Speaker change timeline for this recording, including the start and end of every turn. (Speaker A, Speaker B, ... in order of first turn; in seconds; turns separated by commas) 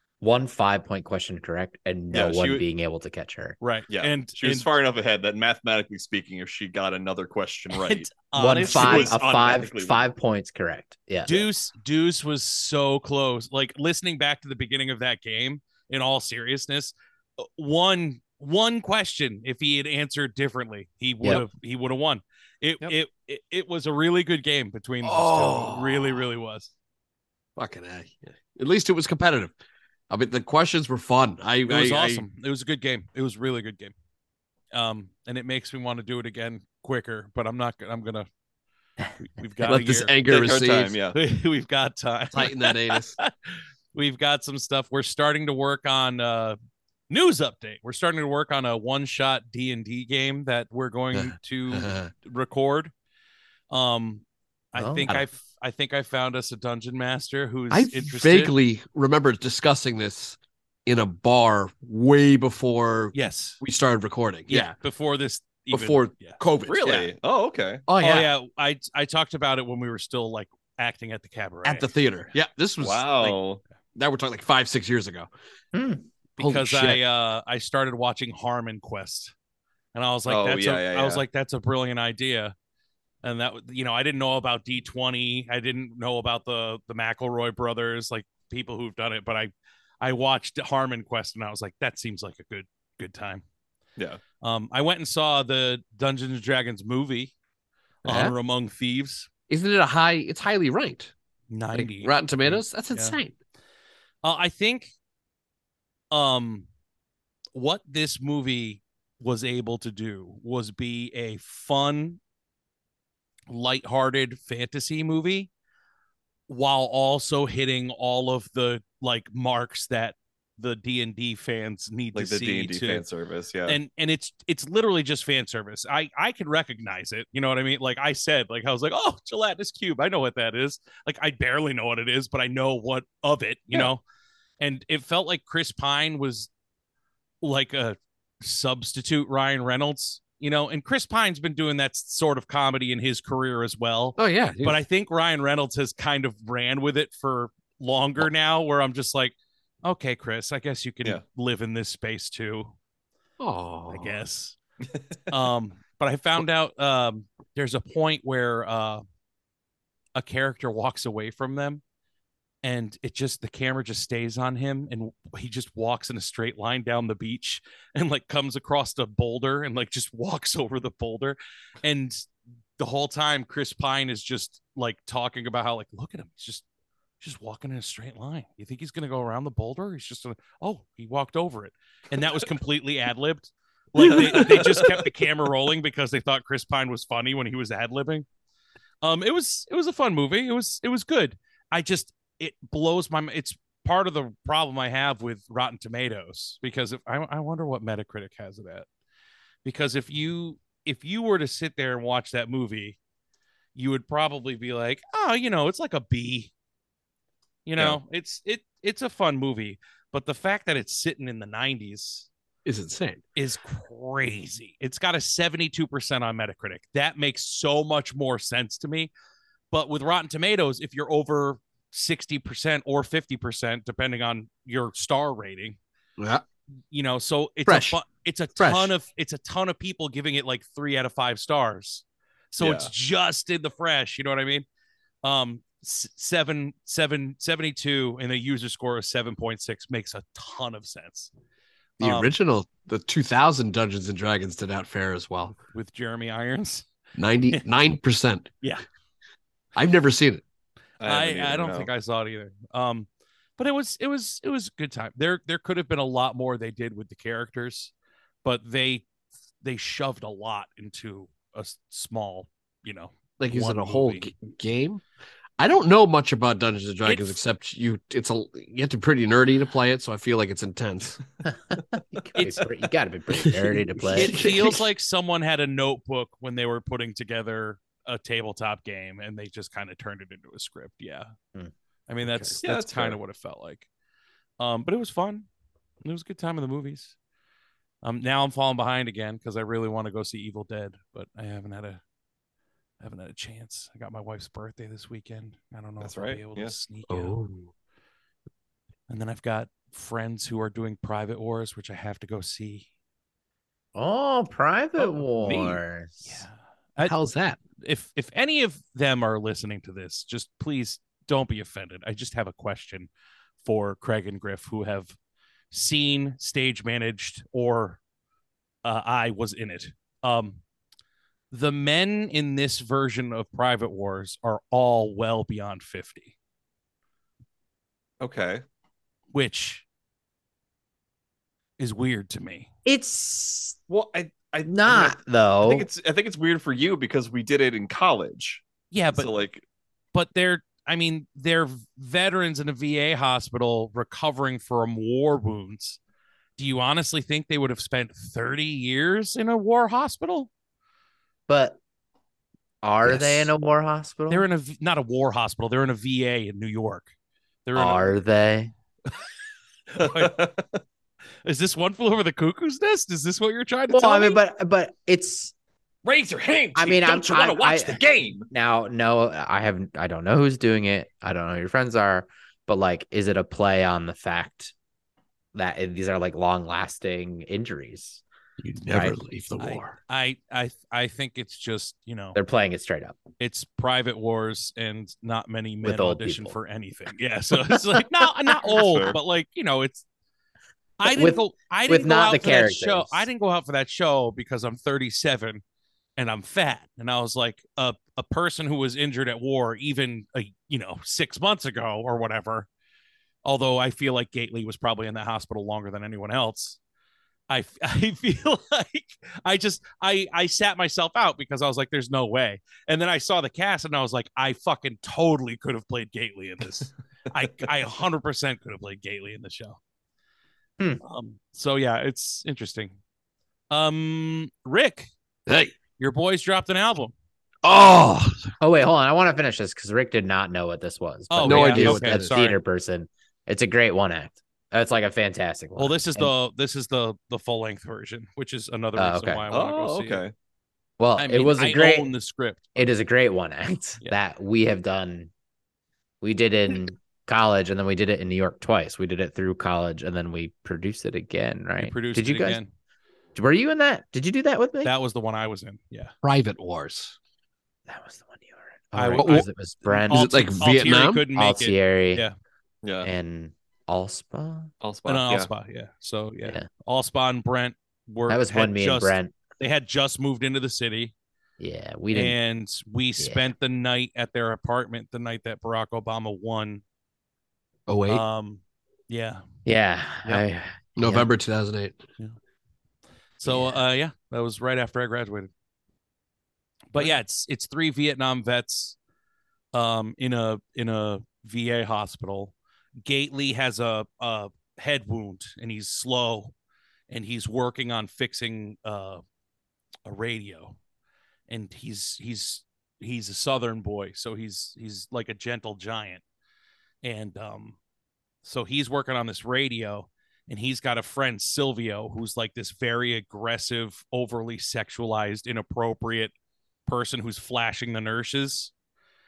Speaker A: 0.2-3.6, Speaker B: 2.1-2.6, Speaker C: 3.6-4.7, Speaker B: 3.9-10.1, Speaker C: 7.7-9.1, Speaker A: 8.3-11.4, Speaker C: 11.2-26.7, Speaker D: 25.0-26.3, Speaker D: 27.6-29.5, Speaker D: 30.1-32.2, Speaker C: 31.6-33.9, Speaker C: 34.7-38.3, Speaker C: 39.2-40.5, Speaker D: 39.6-41.0, Speaker B: 40.3-41.2, Speaker C: 41.1-43.3, Speaker D: 42.3-43.2, Speaker C: 43.9-46.6, Speaker C: 47.1-52.9, Speaker D: 51.1-52.1, Speaker C: 53.7-58.5, Speaker A: 54.7-55.2, Speaker D: 57.7-64.8, Speaker C: 63.1-63.6, Speaker C: 64.5-67.0, Speaker D: 65.7-67.1, Speaker B: 66.8-67.8, Speaker D: 67.9-68.3, Speaker C: 68.0-71.9, Speaker D: 71.6-73.1, Speaker B: 72.8-73.6, Speaker D: 74.0-75.3, Speaker A: 75.7-76.0, Speaker C: 76.4-79.3, Speaker D: 76.4-77.0, Speaker C: 79.9-82.5, Speaker B: 80.2-81.2, Speaker C: 83.2-93.4, Speaker C: 94.4-97.3, Speaker D: 98.0-98.3, Speaker C: 98.0-99.3, Speaker D: 99.5-101.1, Speaker C: 101.5-103.2, Speaker D: 101.7-103.3, Speaker C: 104.2-104.9, Speaker C: 106.1-106.7, Speaker C: 107.5-112.2, Speaker C: 113.5-115.5, Speaker C: 116.5-123.0, Speaker B: 122.1-123.8, Speaker C: 123.7-134.0, Speaker C: 134.6-136.5, Speaker C: 137.4-152.7, Speaker D: 144.2-144.8, Speaker D: 153.4-154.2, Speaker C: 153.9-154.6, Speaker C: 155.3-159.0, Speaker C: 160.1-161.8, Speaker C: 162.6-172.3, Speaker C: 172.8-176.6, Speaker C: 177.2-188.2, Speaker D: 184.0-184.6, Speaker B: 184.4-184.9, Speaker C: 189.0-198.9, Speaker C: 199.6-203.0, Speaker C: 203.7-206.5, Speaker C: 207.6-212.3, Speaker D: 212.6-213.2, Speaker C: 213.3-219.1, Speaker C: 219.7-225.8, Speaker D: 226.2-226.4, Speaker C: 226.9-234.6, Speaker D: 227.7-228.0, Speaker D: 228.6-228.9, Speaker B: 232.6-232.9, Speaker C: 235.2-241.3, Speaker D: 242.0-245.6, Speaker C: 242.0-242.3, Speaker C: 245.6-246.9, Speaker D: 247.2-248.5, Speaker D: 249.8-250.4, Speaker B: 251.0-251.9, Speaker C: 251.0-257.9, Speaker C: 258.4-259.0, Speaker C: 259.6-264.3, Speaker D: 263.4-265.0, Speaker D: 265.6-271.2, Speaker C: 267.0-267.4, Speaker A: 272.1-274.7, Speaker C: 272.3-272.6, Speaker D: 273.9-274.8, Speaker C: 274.1-281.3, Speaker C: 282.1-283.9, Speaker D: 282.2-282.6, Speaker B: 282.6-283.2, Speaker C: 284.6-285.5, Speaker C: 286.0-287.1, Speaker C: 288.0-292.0, Speaker C: 293.0-297.4, Speaker B: 296.0-296.7, Speaker D: 297.1-297.7, Speaker C: 299.1-302.9, Speaker A: 303.9-306.4, Speaker C: 305.0-307.2, Speaker D: 307.0-307.6, Speaker C: 307.8-313.1, Speaker C: 313.6-315.1, Speaker C: 315.7-318.0, Speaker C: 318.8-320.6, Speaker C: 321.5-326.3, Speaker B: 328.2-328.6, Speaker C: 329.3-329.8, Speaker C: 331.8-332.7, Speaker A: 332.8-333.8, Speaker B: 333.9-339.6, Speaker A: 334.6-335.9, Speaker C: 338.9-339.4, Speaker C: 340.1-346.0, Speaker C: 346.6-350.5, Speaker A: 351.5-351.8, Speaker A: 352.8-354.4, Speaker D: 353.1-353.4, Speaker C: 353.1-353.5, Speaker C: 354.3-357.1, Speaker C: 357.6-358.2, Speaker A: 357.8-358.7, Speaker C: 359.9-360.4, Speaker B: 360.0-360.6, Speaker C: 361.4-364.4, Speaker A: 363.9-365.5, Speaker B: 366.0-368.5, Speaker A: 366.7-374.7, Speaker A: 375.5-378.2, Speaker D: 378.6-379.9, Speaker A: 378.9-379.2, Speaker C: 379.6-382.4, Speaker A: 382.3-383.2, Speaker C: 383.4-390.0, Speaker A: 385.8-386.6, Speaker B: 388.8-389.2, Speaker C: 391.0-395.6, Speaker A: 391.0-393.3, Speaker C: 396.2-402.7, Speaker C: 403.4-406.8, Speaker C: 407.5-419.8, Speaker C: 421.0-423.0, Speaker C: 423.7-425.1, Speaker D: 425.5-425.7, Speaker C: 426.0-427.1, Speaker D: 427.6-428.5, Speaker A: 428.6-436.3, Speaker C: 431.3-432.6, Speaker D: 431.4-432.4, Speaker C: 435.8-440.2, Speaker A: 438.9-439.4, Speaker B: 439.5-440.3, Speaker A: 441.0-442.1, Speaker C: 441.2-442.9, Speaker A: 442.7-445.3, Speaker A: 446.2-452.6, Speaker C: 451.8-452.7, Speaker A: 453.3-454.9, Speaker C: 454.8-456.1, Speaker D: 456.2-457.1, Speaker A: 457.9-460.5, Speaker C: 458.9-462.3, Speaker D: 459.1-461.2, Speaker A: 461.3-462.2, Speaker B: 462.8-463.1, Speaker A: 463.0-464.7, Speaker B: 464.8-465.5, Speaker C: 465.1-471.1, Speaker A: 468.3-469.3, Speaker A: 471.6-472.4, Speaker C: 472.1-476.8, Speaker A: 473.2-473.5, Speaker D: 477.9-478.2, Speaker C: 478.1-479.4, Speaker A: 479.6-481.3, Speaker D: 480.9-482.0, Speaker C: 483.4-485.5, Speaker A: 483.4-483.8, Speaker C: 486.9-488.9, Speaker C: 489.7-492.5, Speaker C: 493.0-496.5, Speaker C: 497.1-499.2, Speaker C: 500.1-500.8, Speaker C: 501.5-506.2, Speaker C: 507.0-507.8, Speaker C: 508.4-516.3, Speaker C: 516.9-518.7